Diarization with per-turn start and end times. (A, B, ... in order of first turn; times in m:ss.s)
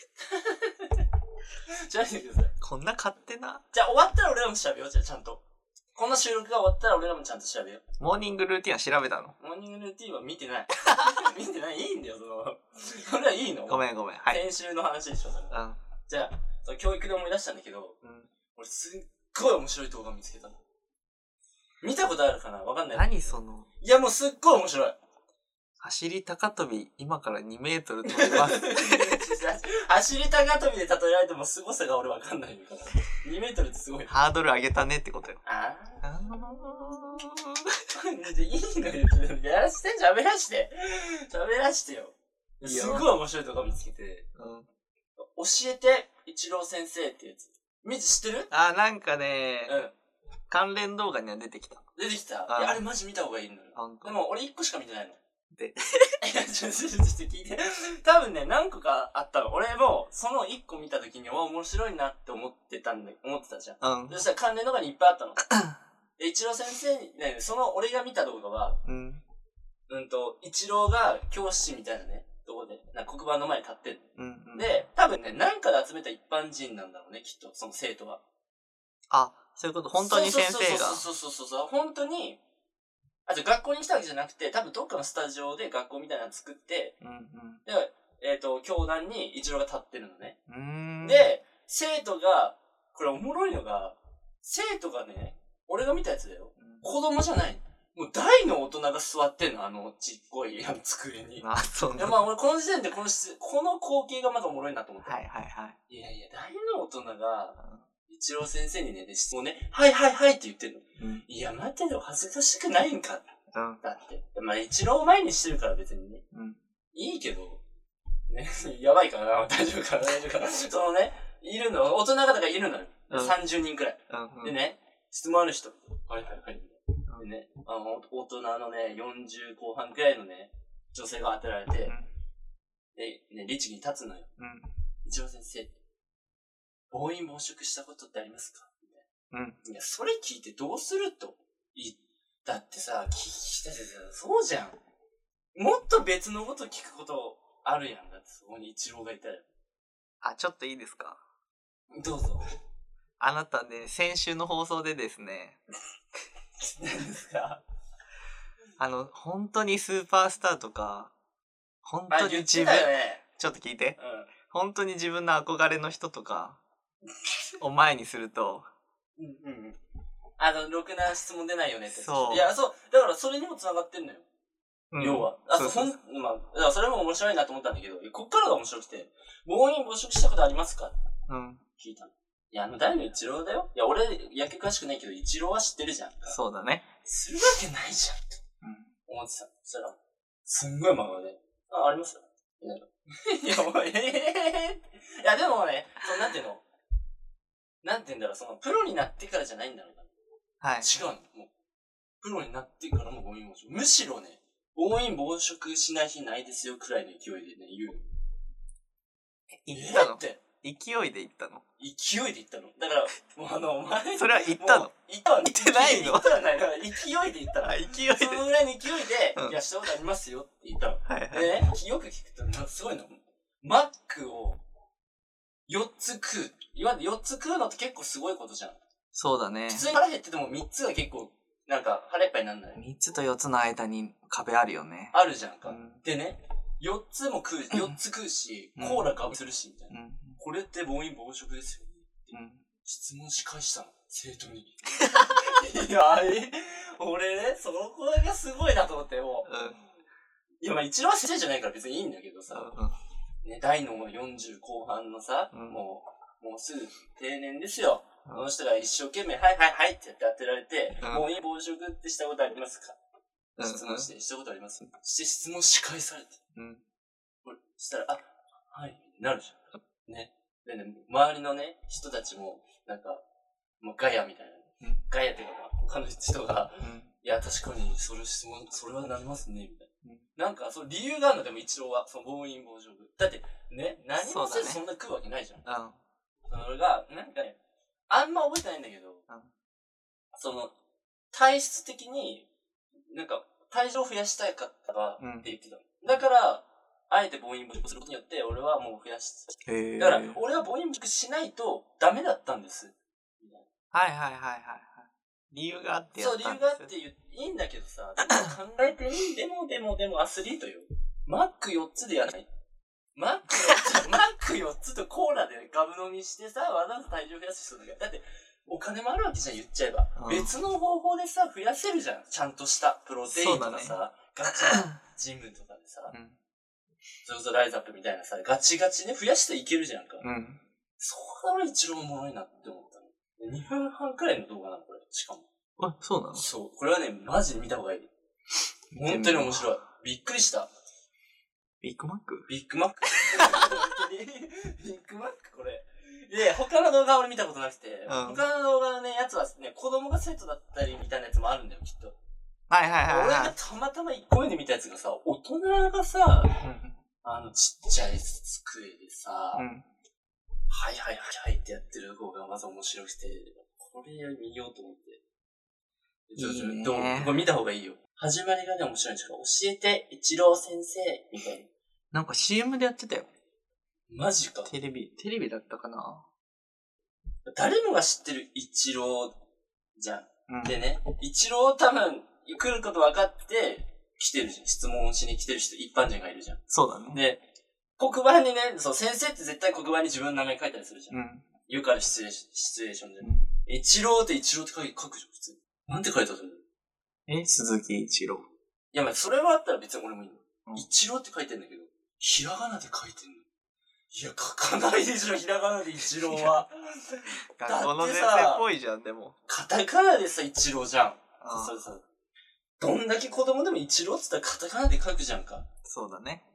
0:00.2-0:01.0 A
0:01.7-0:02.5 A
0:02.6-0:03.6 B
0:03.7-0:05.4 A
0:05.9-0:07.8 A
0:08.0-0:09.4 B
0:09.4-0:15.5 A
0:13.7-0:14.4 B
0:15.5-0:15.8 B
0:16.1-0:18.0 A
0:18.0-0:18.3 B
0:18.5-0:20.5 A
0:21.8-0:25.0 A
0:22.9-0:23.7 B
0:25.8-0:29.2 B
0:28.1-0:34.2 A
0:34.1-0:35.4 B
0:35.4-0:36.0 A
0:36.0-0:37.7 B
0:37.9-0:44.2 A
0:42.6-0:43.1 B
0:44.4-0:44.6 B
0:45.3-0:48.5 A
0:48.5-0:49.8 B
0:49.6-0:49.9 A
0:50.5-0:51.8 B
0:51.9-0:55.2 A
0:52.5-0:52.8 B
0:53.8-0:54.1 B
0:55.5-0:56.2 B
0:56.2-1:05.4 A
1:03.8-1:04.2 B
1:05.5-1:05.8 B
1:06.2-1:08.8 A
1:08.8-1:09.2 B
1:09.9-1:18.2 A
1:14.2-1:14.7 B
1:19.1-1:21.0 B
1:19.9-1:22.4 A
1:23.2-1:27.0 A
1:27.0-1:27.6 B
1:27.6-1:30.4 A
1:30.5-1:31.2 B
1:31.0-1:45.2 A
1:36.6-1:36.8 B
1:41.4-1:42.2 B
1:45.0-1:45.8 B
1:45.9-1:53.2 A
1:47.6-1:47.8 B
1:51.0-1:51.2 B
1:53.5-1:53.8 B
1:53.8-1:56.2 A
1:56.3-1:56.6 B
1:56.9-1:57.6 A
1:58.3-2:11.9 A
2:03.1-2:03.4 B
2:04.1-2:04.6 B
2:12.9-2:14.3 A
2:14.4-2:14.7 B
2:15.0-2:15.7 A
2:16.9-2:19.0 A
2:19.3-2:19.6 B
2:19.6-2:24.8 A
2:25.5-2:29.4 A
2:30.2-2:31.2 B
2:31.9-2:32.4 A
2:33.2-2:35.6 B
2:36.6-2:37.6 A
2:38.8-2:41.1 B
2:41.8-2:46.6 B
2:42.1-2:43.2 A
2:44.0-2:44.3 A
2:47.6-2:48.6 B
2:49.2-2:49.8 A
2:50.4-2:54.2 A
2:51.9-2:52.5 B
2:54.9-2:55.9 B
2:55.0-3:01.0 A
3:01.3-3:01.6 B
3:01.8-3:06.4 A
3:06.2-3:06.9 B
3:07.0-3:08.4 A
3:08.6-3:08.9 B
3:09.0-3:16.6 A
3:17.8-3:20.1 A
3:20.6-3:20.9 B
3:20.8-3:21.5 A
3:22.2-3:28.0 A
3:29.6-3:31.6 B
3:29.7-3:30.4 A
3:31.8-3:44.6 A
3:34.2-3:36.3 B
3:37.6-3:38.4 B
3:41.0-3:41.6 B
3:45.7-3:48.8 A
3:49.1-3:49.9 B
3:49.7-3:52.8 A
3:52.8-3:56.0 B
3:55.1-4:09.5 A
3:58.8-3:59.2 B
3:59.9-4:00.4 B
4:02.3-4:02.6 B
4:09.4-4:09.8 B
4:10.6-4:12.8 A
4:12.5-4:13.0 B
4:13.4-4:23.0 A
4:15.5-4:15.8 B
4:21.0-4:21.3 B
4:23.6-4:24.1 B
4:23.6-4:26.4 A
4:26.5-4:26.8 B
4:27.4-4:33.2 A
4:33.8-4:45.6 A
4:36.8-4:37.1 B
4:44.2-4:44.8 B
4:45.6-4:46.0 B
4:46.5-4:47.6 A
4:48.1-4:49.2 A
4:50.3-4:50.7 A
4:51.3-4:52.5 A
4:53.1-5:03.6 A
4:55.2-4:55.5 B
4:59.6-5:00.4 B
5:03.9-5:06.9 B
5:06.2-5:12.5 A
5:13.1-5:26.1 A
5:20.2-5:20.5 B
5:23.3-5:24.0 B
5:26.1-5:26.4 B
5:27.2-5:30.2 A
5:30.2-5:30.6 B
5:31.0-5:35.4 A
5:35.8-5:36.4 B
5:36.3-5:38.1 A
5:38.9-5:39.7 B
5:39.0-5:40.7 A
5:41.8-5:42.5 B
5:42.5-5:52.2 A
5:43.2-5:43.5 B
5:48.1-5:48.4 B
5:52.7-5:53.5 B
5:53.0-5:56.5 A
5:56.6-5:56.9 B
5:57.2-5:59.6 A
5:59.5-5:59.8 B
6:00.7-6:05.2 A
6:06.3-6:11.7 A
6:06.4-6:07.4 B
6:12.1-6:13.3 B
6:14.1-6:14.7 A
6:14.6-6:16.2 B
6:17.5-6:19.4 A
6:20.0-6:27.4 A
6:20.5-6:20.8 B
6:26.7-6:27.2 B
6:28.0-6:36.6 A
6:31.1-6:31.4 B
6:37.3-6:38.4 B
6:38.9-6:43.4 A
6:44.1-6:48.6 A
6:46.3-6:46.6 B
6:47.6-6:49.4 B
6:49.5-6:52.0 A
6:51.4-6:51.7 B
6:52.8-6:55.6 A
6:55.8-6:56.4 B